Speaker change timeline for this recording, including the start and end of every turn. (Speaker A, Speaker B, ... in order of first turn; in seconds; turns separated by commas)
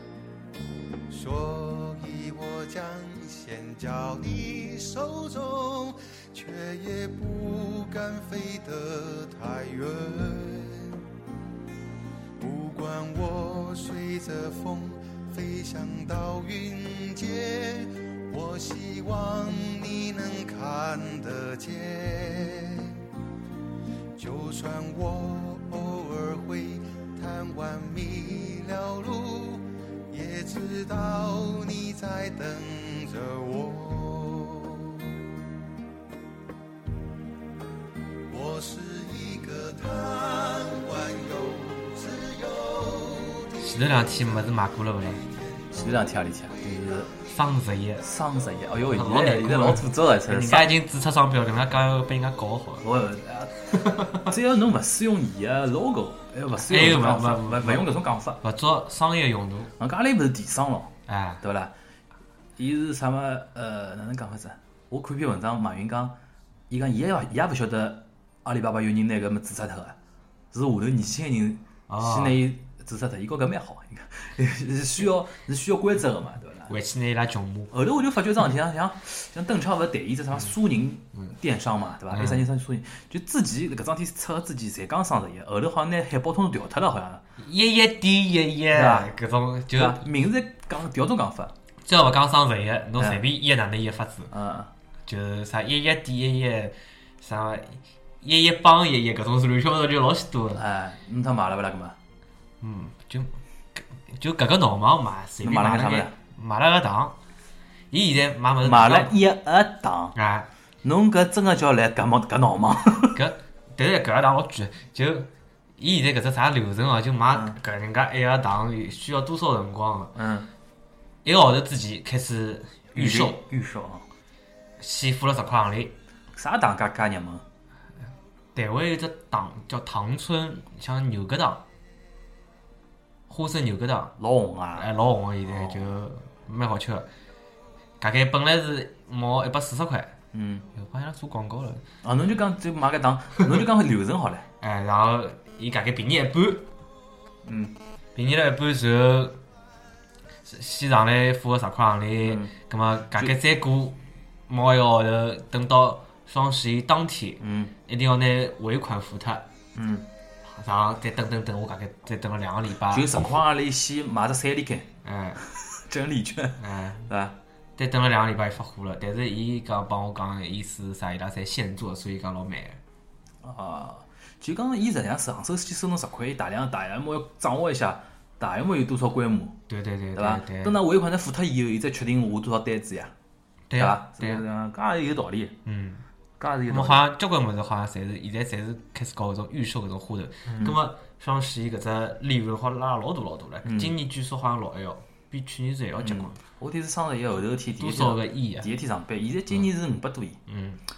Speaker A: 1.1-11.0, Speaker A: 12.4-23.0, Speaker A: 24.2-35.2, Speaker A: 38.3-44.5, Speaker B: 43.6-45.2, Speaker A: 45.0-47.1, Speaker C: 45.8-47.1, Speaker B: 47.3-48.0, Speaker C: 48.0-50.7, Speaker B: 48.9-52.9, Speaker C: 52.8-58.4, Speaker B: 53.7-54.4, Speaker B: 56.5-57.9, Speaker B: 58.4-59.7, Speaker C: 59.8-61.7, Speaker B: 61.1-61.4, Speaker C: 62.6-66.2, Speaker C: 66.7-70.0, Speaker C: 70.5-76.7, Speaker B: 71.9-72.4, Speaker B: 76.7-77.7, Speaker C: 77.7-87.2, Speaker B: 82.1-82.5, Speaker B: 87.4-90.0, Speaker C: 88.7-89.1, Speaker C: 89.7-91.5, Speaker B: 91.9-94.3, Speaker C: 93.0-93.2, Speaker C: 94.3-94.7, Speaker B: 95.1-100.6, Speaker C: 100.5-102.0, Speaker B: 102.6-107.2, Speaker C: 105.4-106.1, Speaker B: 107.9-109.2, Speaker C: 108.6-110.2, Speaker B: 110.2-110.5, Speaker C: 110.8-113.2, Speaker B: 113.1-120.2, Speaker C: 120.2-120.5, Speaker B: 121.2-123.4, Speaker C: 123.0-124.0, Speaker B: 124.8-125.9, Speaker C: 126.3-127.5, Speaker B: 128.6-131.6, Speaker B: 133.3-134.2, Speaker C: 134.2-134.9, Speaker B: 134.8-137.1, Speaker C: 135.5-135.9, Speaker B: 138.0-140.2, Speaker C: 140.3-140.7, Speaker B: 140.7-141.8, Speaker C: 142.0-144.5, Speaker B: 144.6-146.7, Speaker C: 147.5-147.8, Speaker B: 148.2-149.4, Speaker B: 150.5-159.4, Speaker C: 152.2-152.5, Speaker C: 157.4-157.7, Speaker C: 159.8-160.1, Speaker B: 160.5-163.4, Speaker C: 162.9-164.9, Speaker B: 165.0-165.4, Speaker C: 165.5-167.4, Speaker B: 166.6-167.1, Speaker B: 167.8-172.8, Speaker C: 173.4-179.6, Speaker B: 179.7-180.8, Speaker C: 180.2-183.1, Speaker B: 183.7-184.4, Speaker C: 183.8-185.6, Speaker B: 185.7-186.0, Speaker C: 186.4-187.0, Speaker B: 186.7-196.4, Speaker C: 190.5-190.8, Speaker C: 193.6-193.9, Speaker C: 196.0-200.4, Speaker B: 197.8-198.7, Speaker B: 200.5-200.8